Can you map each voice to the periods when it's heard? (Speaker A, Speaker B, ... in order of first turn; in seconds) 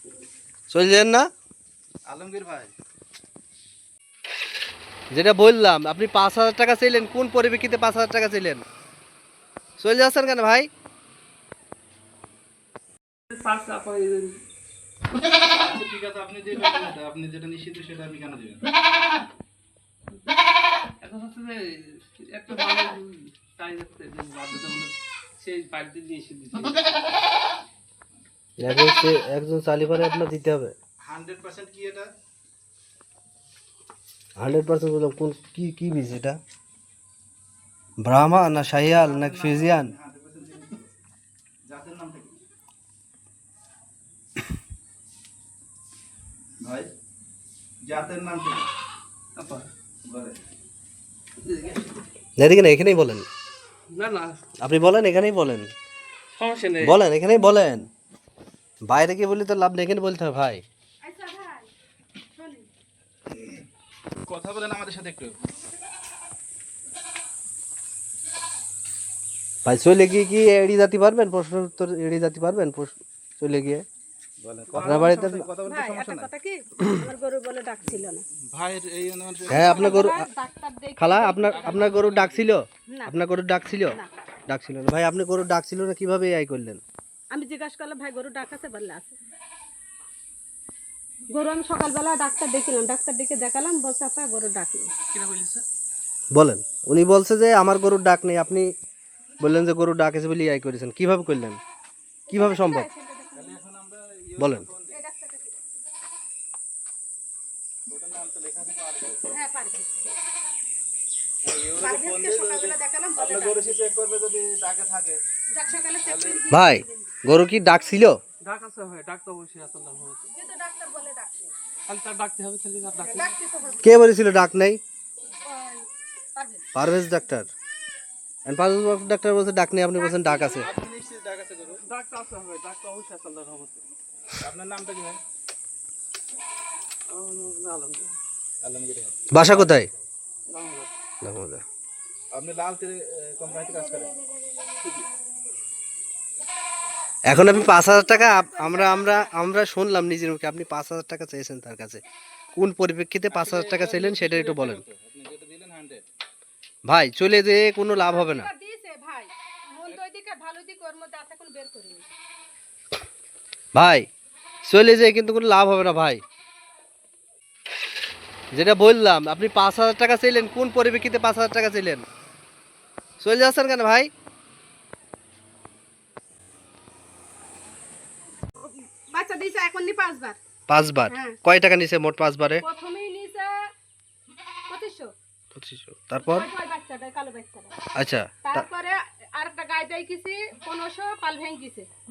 Speaker A: 0.7-1.3, 5.1-8.6, 9.8-10.7, 28.6-30.7, 34.4-36.4, 38.0-39.9, 52.4-53.2, 54.6-55.7, 56.8-57.9, 58.8-60.6, 69.6-73.8, 74.7-75.5, 79.5-80.3, 81.0-86.8, 96.3-98.7, 99.4-101.6, 102.3-102.9, 104.4-104.7, 116.5-118.2, 123.8-124.8, 126.7-127.5, 128.4-130.7, 139.3-139.9, 141.2-141.6, 147.3-152.0, 152.5-154.8, 156.8-158.5, 163.7-164.1, 164.7-166.2, 168.5-172.0, 173.2-174.1, 180.7-182.6, 185.5-186.5, 187.9-188.7
Speaker B: 2.1-2.7, 15.4-18.6, 31.0-32.1, 38.8-40.9, 41.7-42.4, 46.6-46.9, 47.8-48.7, 50.0-50.4, 63.3-63.6, 64.2-65.4, 74.4-76.3, 77.8-80.2, 81.5-82.4, 103.3-105.0, 107.9-109.3, 111.4-115.2, 116.0-116.5, 130.5-131.8, 134.2-135.2, 138.6-140.0, 142.3-144.1, 153.3-156.0
Speaker C: 13.3-14.4, 21.0-27.0, 49.4-49.7, 51.4-51.8, 53.9-54.4, 56.4-57.0, 95.1-95.6, 118.4-120.3, 121.9-123.3, 131.8-133.8, 137.1-138.1, 140.5-140.9
Speaker D: 61.0-61.7, 62.3-62.7, 75.6-78.2, 79.7-81.9, 82.9-83.1, 87.3-89.2, 91.3-94.9, 102.3-103.6, 104.9-105.6, 109.3-109.9, 111.8-113.7, 115.5-117.0, 120.3-121.5, 123.0-123.8, 125.4-126.7, 129.9-130.7, 147.9-149.4, 158.0-162.1, 178.6-180.4, 181.1-181.4, 182.6-183.7, 184.7-185.1, 186.2-187.8, 188.4-191.9